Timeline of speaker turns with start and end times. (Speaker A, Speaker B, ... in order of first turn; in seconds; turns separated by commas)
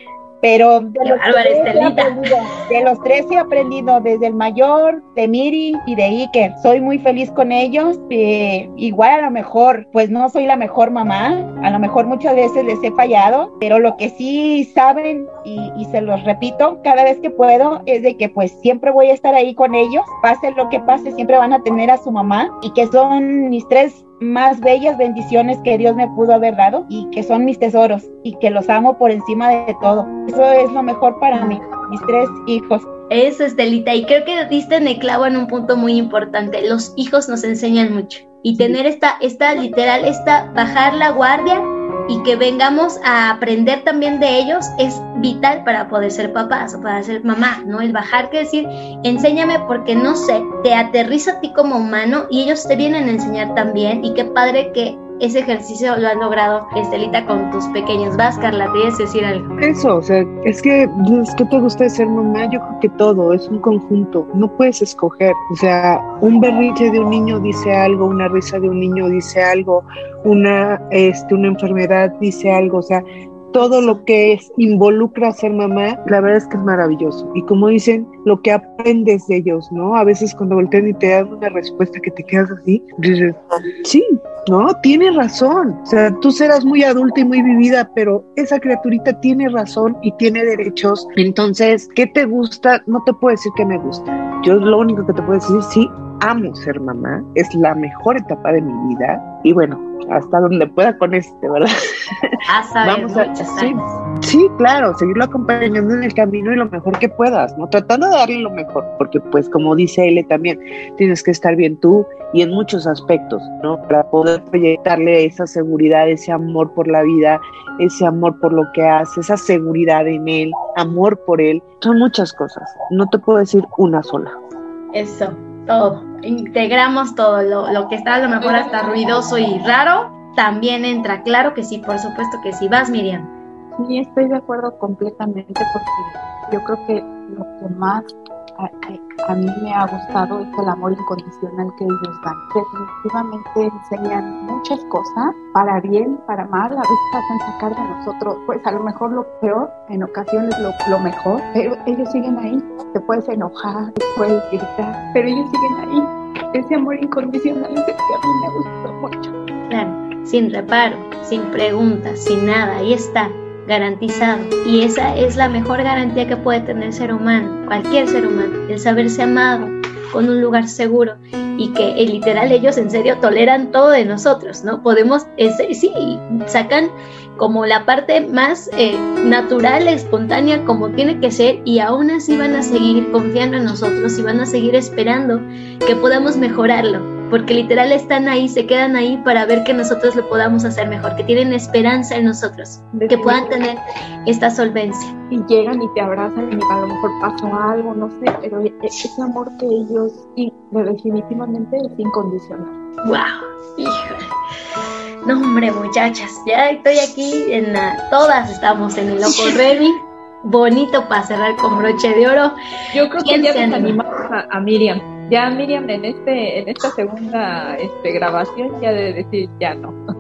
Speaker A: 0.4-32.9, Speaker B: 1.0-2.2, Speaker B: 33.1-59.5, Speaker C: 59.6-101.7, Speaker B: 73.6-74.0, Speaker B: 102.5-104.0, Speaker C: 102.8-124.3, Speaker B: 124.9-133.3, Speaker D: 128.4-129.2, Speaker D: 133.8-159.3, Speaker B: 159.7-195.1, Speaker D: 192.9-193.6, Speaker D: 195.3-202.8, Speaker B: 203.0-204.3, Speaker B: 205.2-212.6, Speaker D: 212.9-220.0, Speaker B: 213.2-214.0